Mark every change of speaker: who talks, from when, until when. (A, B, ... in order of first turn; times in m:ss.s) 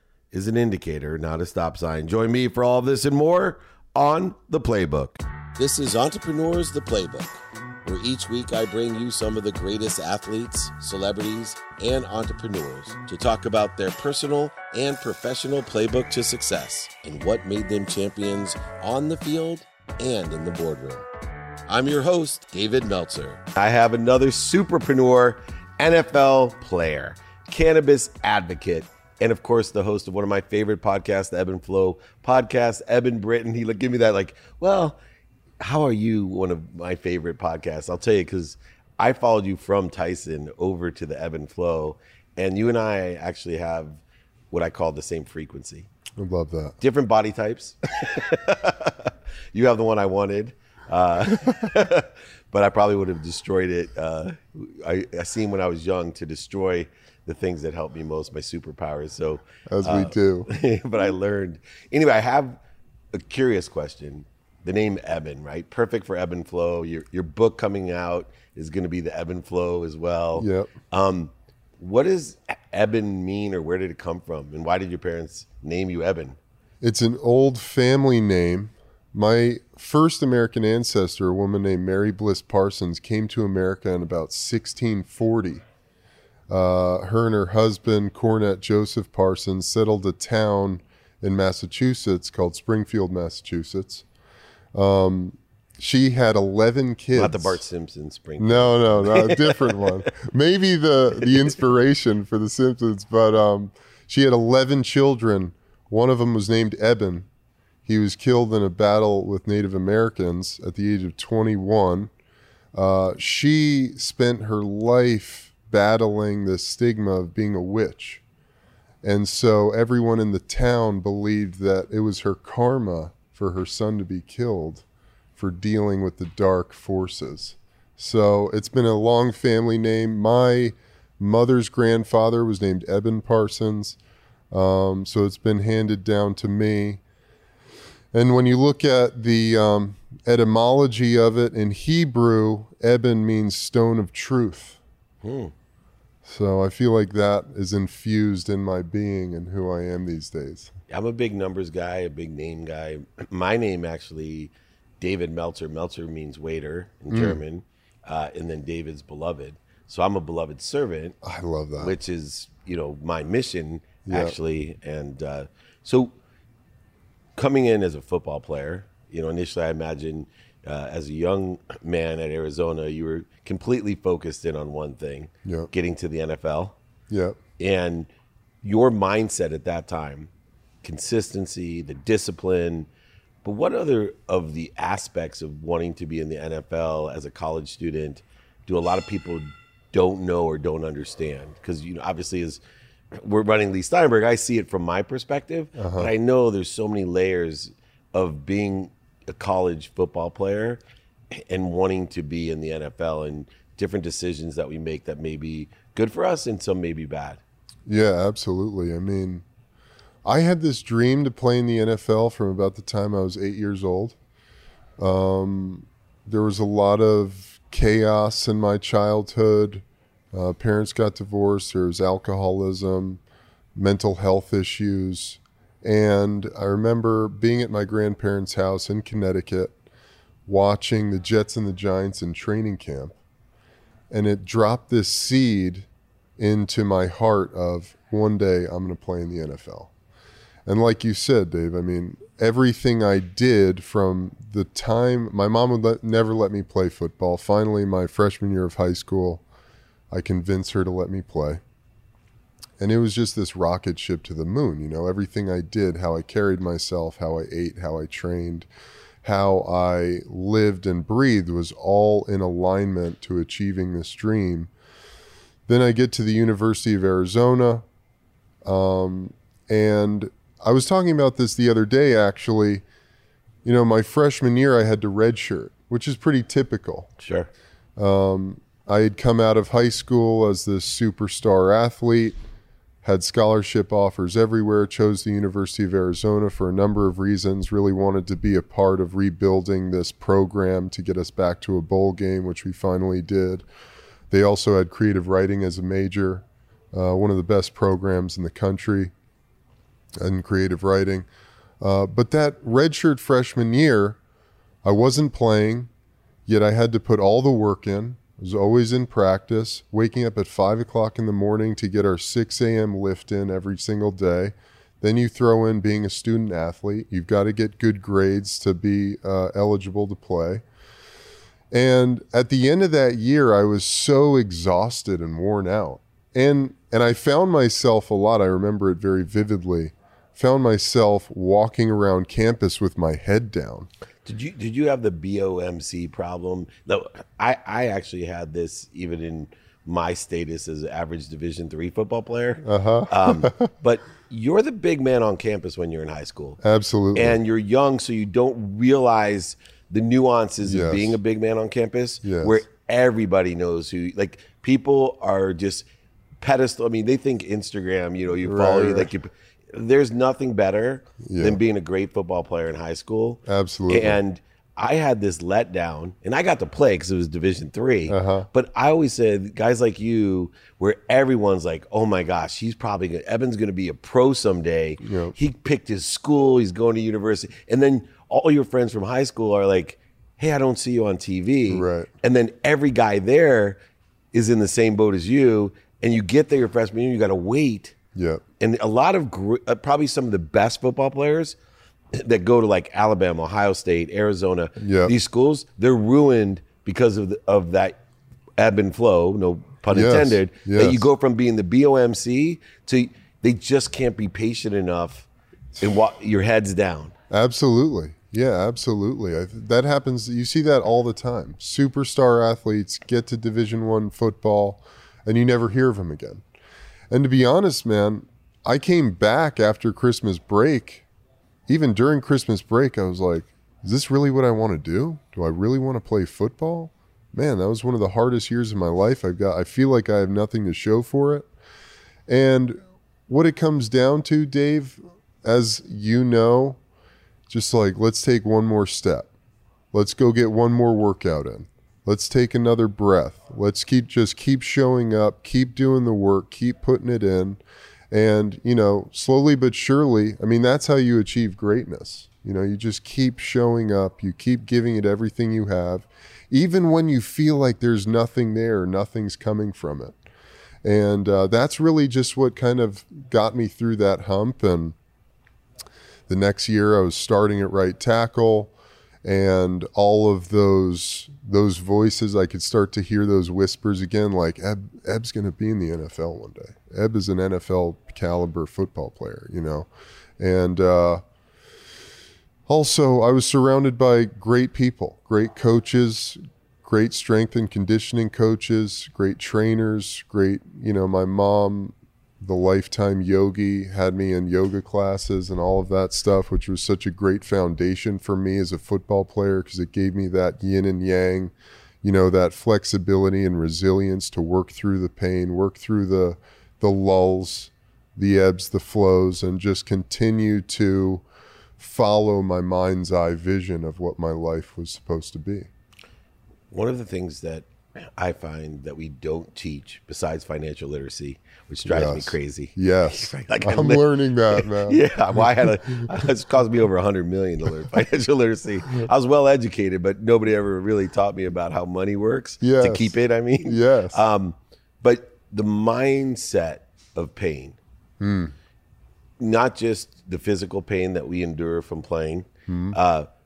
0:00.3-0:21.1 A
0:21.7-0:35.0 A
0:35.6-0:45.9 A
0:46.2-0:46.8 B
0:46.8-1:02.6 A
0:59.7-1:00.5 B
1:03.1-1:16.4 A
1:10.4-1:10.7 B
1:16.8-1:25.6 B
1:26.5-1:34.0 B
1:34.8-1:37.6 B
1:37.1-1:40.1 A
1:38.4-1:47.3 B
1:47.9-1:52.1 B
1:52.7-1:58.2 B
1:59.0-2:04.8 B
2:05.4-2:14.0 B
2:14.5-2:17.0 B
2:18.1-2:24.8 B
2:25.2-2:25.5 A
2:26.2-2:30.7 B
2:30.9-2:41.2 A
2:37.1-2:37.4 B
2:41.2-2:42.0 B
2:41.8-2:46.2 A
2:44.0-2:44.4 B
2:47.4-2:56.8 A
2:55.4-2:55.7 B
2:57.1-2:57.4 B
2:57.6-2:58.1 A
2:58.6-3:00.3 A
3:00.8-3:02.9 A
3:03.4-3:12.6 A
3:13.2-3:20.8 A
3:15.8-3:16.1 B
3:21.5-3:27.4 A
3:27.9-3:29.4 B
3:30.2-3:34.2 B
3:35.0-3:43.2 B
3:43.8-3:49.8 B
3:50.5-3:53.2 B
3:54.1-3:59.9 B
4:00.7-4:09.4 B
4:10.1-4:11.6 B
4:12.8-4:18.7 B
4:19.2-4:24.7 B
4:25.7-4:27.8 B
4:28.6-4:32.8 B
4:33.6-4:37.1 B
4:37.2-4:37.5 A
4:38.0-4:42.4 B
4:43.0-4:53.6 B
4:54.3-4:59.1 B
5:00.2-5:01.3 B
5:01.8-5:04.2 B
5:04.8-5:05.9 B
5:06.5-5:20.6 B
5:21.7-5:33.9 B
5:34.2-5:46.6 A
5:42.6-5:43.6 B
5:46.6-5:47.4 B
5:47.2-5:55.9 A
5:50.6-5:51.2 B
5:52.2-5:52.6 B
5:56.4-6:23.8 A
5:58.4-5:59.1 B
6:01.2-6:01.6 B
6:03.5-6:04.2 B
6:08.1-6:08.5 B
6:15.0-6:15.3 B
6:21.7-6:22.1 B
6:24.3-6:28.0 A
6:28.2-6:28.4 B
6:28.6-6:31.6 A
6:32.1-6:38.0 A
6:34.8-6:35.1 B
6:38.6-6:47.2 A
6:39.9-6:41.0 B
6:47.3-6:56.4 B
6:57.1-7:01.1 B
7:01.7-7:11.5 B
7:12.3-7:16.8 B
7:17.5-7:19.3 B
7:19.9-7:40.2 B
7:40.8-7:45.0 B
7:46.3-7:48.7 B
7:49.2-7:59.9 B
8:00.4-8:01.2 B
8:02.7-8:31.2 B
8:31.8-8:35.7 B
8:36.7-8:57.8 A
8:41.8-8:46.1 B
8:52.6-8:53.1 B
8:53.6-8:54.2 B
8:58.2-8:58.5 B
8:59.4-9:03.3 A
9:02.7-9:03.0 B